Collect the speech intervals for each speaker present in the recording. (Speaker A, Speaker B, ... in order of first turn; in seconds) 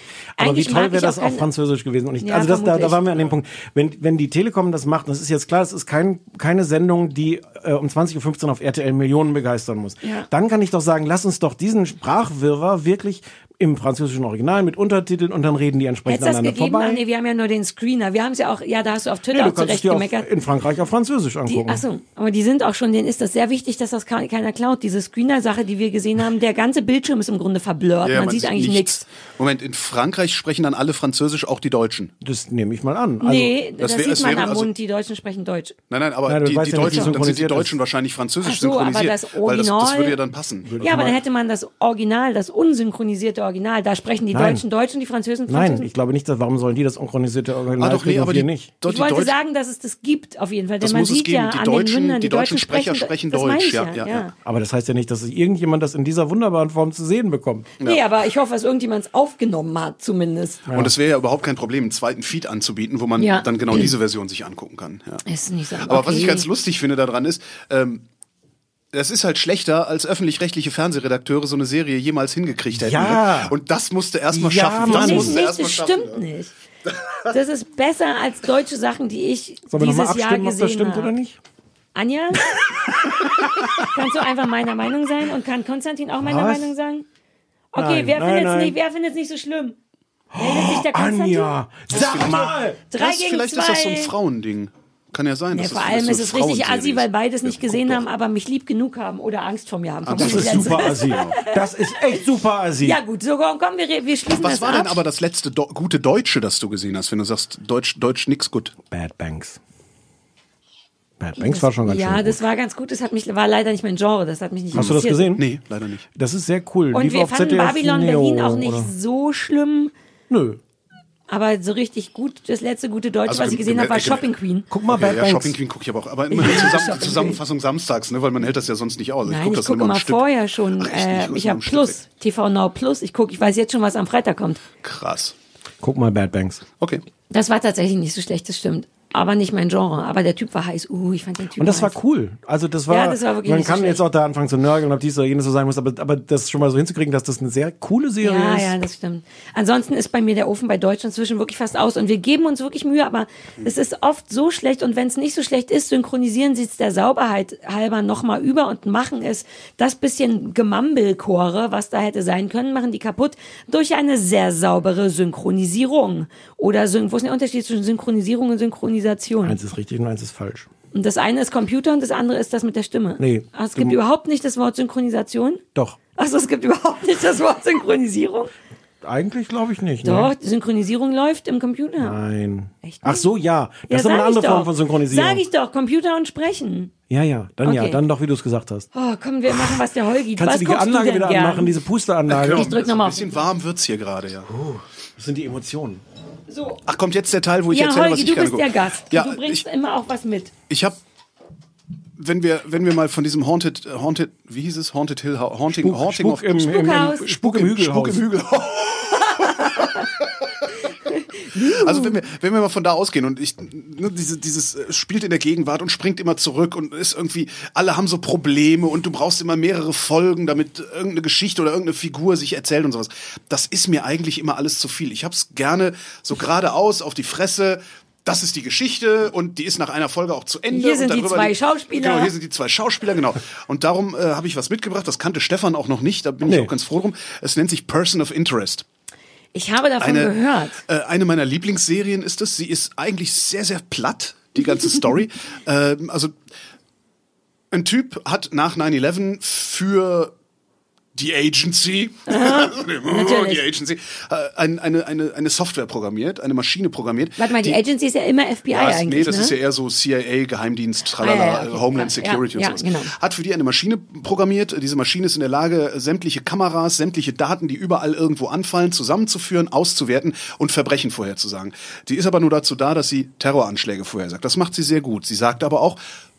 Speaker A: 0.4-17.0, 19.3-21.8, 32.2-33.5, 36.3-37.8, 40.6-41.2, 44.3-44.6, 45.5-48.7, 54.4-57.7, 60.7-60.9, 72.7-73.5, 74.3-75.4, 79.7-81.4, 83.2-83.7, 86.2-86.7, 87.8-88.8, 90.3-92.8, 100.2-103.0, 108.9-109.6, 111.2-112.4, 114.7-115.4, 116.2-118.9, 120.3-120.6, 124.7-125.5, 135.8-136.6, 141.6-148.7, 169.4-170.7, 173.2-174.0, 179.0-180.3, 182.0-185.4, 187.1-188.9, 190.3-192.7, 194.5-196.0, 205.8-208.2, 236.4-236.7
Speaker B: 0.4-1.4, 2.2-3.3, 10.0-10.3, 16.1-20.3, 21.5-29.0, 33.2-35.7, 36.9-37.1, 38.4-40.2, 40.8-45.9, 48.9-54.3, 57.8-60.6, 63.2-63.9, 65.2-66.5, 74.8-76.5, 77.3-81.1, 81.9-82.5, 83.8-87.0, 87.7-89.8, 90.3-94.1, 95.5-101.5, 102.8-105.0, 111.4-115.3, 116.9-119.9, 121.3-124.7, 126.3-127.4, 129.2-134.6, 137.3-141.9, 142.9-144.0, 148.2-169.6, 170.9-175.6, 176.2-178.5, 180.0-182.2, 182.8-183.3, 183.9-186.9, 187.6-188.0, 188.9-191.7, 192.4-193.3, 196.5-196.8, 197.7-200.5, 206.7-207.3, 209.2-210.1, 211.1-212.1, 230.7-232.3, 239.5-240.8, 252.3-253.6, 257.4-259.6, 261.2-263.1
Speaker C: 28.0-32.1, 33.8-34.7, 35.9-40.8, 47.8-49.4, 50.8-54.3, 60.7-65.2, 65.8-68.0, 68.9-76.2, 91.9-98.0, 100.0-101.4, 104.3-108.7, 114.7-116.1, 123.2-124.3, 124.9-132.0, 134.8-135.3, 192.3-194.5, 196.8-199.6, 200.7-201.0, 202.2-210.2, 211.6-238.8, 240.0-246.3, 247.7-250.3, 251.1-257.8, 258.7-276.0